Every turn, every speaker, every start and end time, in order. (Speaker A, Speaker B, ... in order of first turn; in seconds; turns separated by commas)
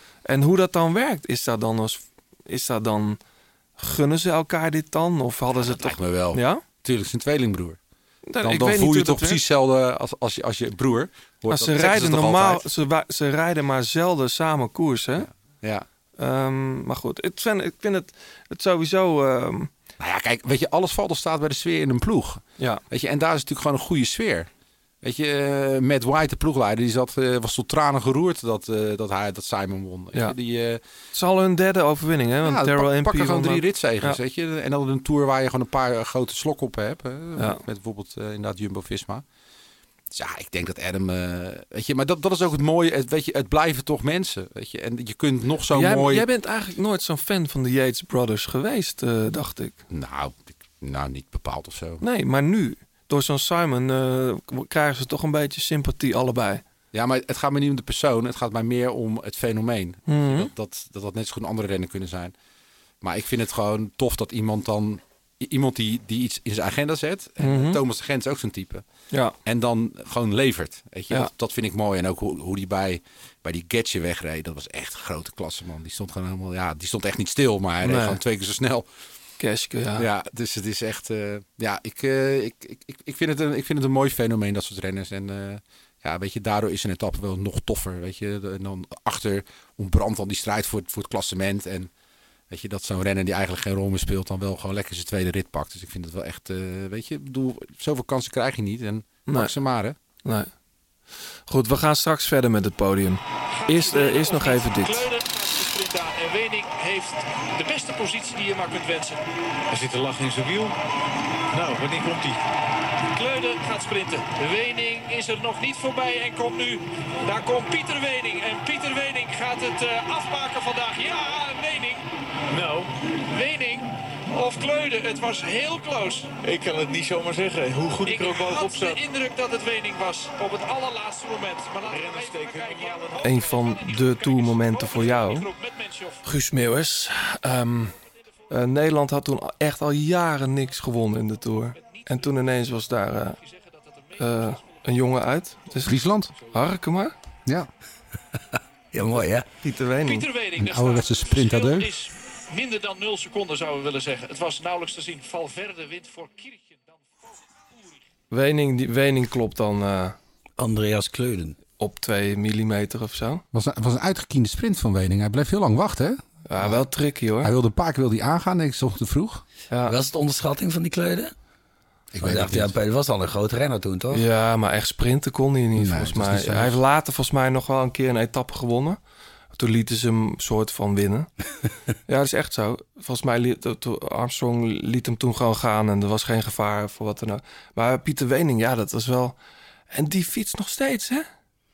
Speaker A: 0.2-3.2, Speaker A: 3.8-6.6, Speaker B: 5.5-7.8, Speaker A: 8.3-9.4, Speaker B: 8.4-12.6, Speaker A: 11.5-15.3, Speaker B: 15.2-15.9, Speaker A: 16.2-19.7, Speaker B: 20.0-24.5, Speaker B: 25.0-30.8, Speaker A: 31.1-34.2, Speaker B: 32.4-39.2, Speaker B: 40.1-46.3, Speaker A: 45.7-49.8, Speaker B: 49.9-52.0, Speaker A: 52.0-56.6, Speaker B: 56.9-62.3, Speaker A: 60.1-60.5, Speaker B: 63.0-68.8, Speaker A: 67.4-67.8, Speaker B: 69.4-78.9, Speaker A: 77.8-78.2, Speaker A: 79.4-80.0, Speaker B: 80.0-91.9, Speaker B: 92.5-100.0, Speaker A: 99.3-99.5, Speaker A: 100.2-100.5, Speaker A: 101.5-105.0, Speaker C: 103.5-110.0, Speaker D: 109.7-110.7, Speaker D: 111.5-112.4, Speaker C: 111.8-112.2, Speaker C: 113.1-122.0, Speaker D: 122.5-122.9, Speaker C: 123.3-126.3, Speaker D: 126.4-129.0, Speaker C: 128.0-136.2, Speaker D: 131.8-133.2, Speaker A: 133.2-135.5, Speaker A: 136.2-137.9, Speaker A: 138.5-143.4, Speaker C: 141.8-142.3, Speaker C: 143.2-144.8, Speaker A: 144.2-147.1, Speaker B: 145.8-146.3, Speaker E: 148.9-149.4, Speaker A: 149.6-150.3, Speaker C: 150.0-157.0, Speaker B: 150.6-151.9, Speaker A: 158.3-160.2, Speaker E: 160.6-161.6, Speaker A: 161.8-163.4, Speaker B: 163.5-166.8, Speaker A: 166.5-167.5, Speaker B: 167.4-169.4, Speaker E: 169.8-171.3, Speaker B: 172.1-172.7, Speaker E: 172.2-174.2, Speaker A: 174.1-179.0, Speaker B: 175.8-176.8, Speaker A: 179.5-181.3, Speaker A: 182.1-189.3, Speaker A: 189.9-191.3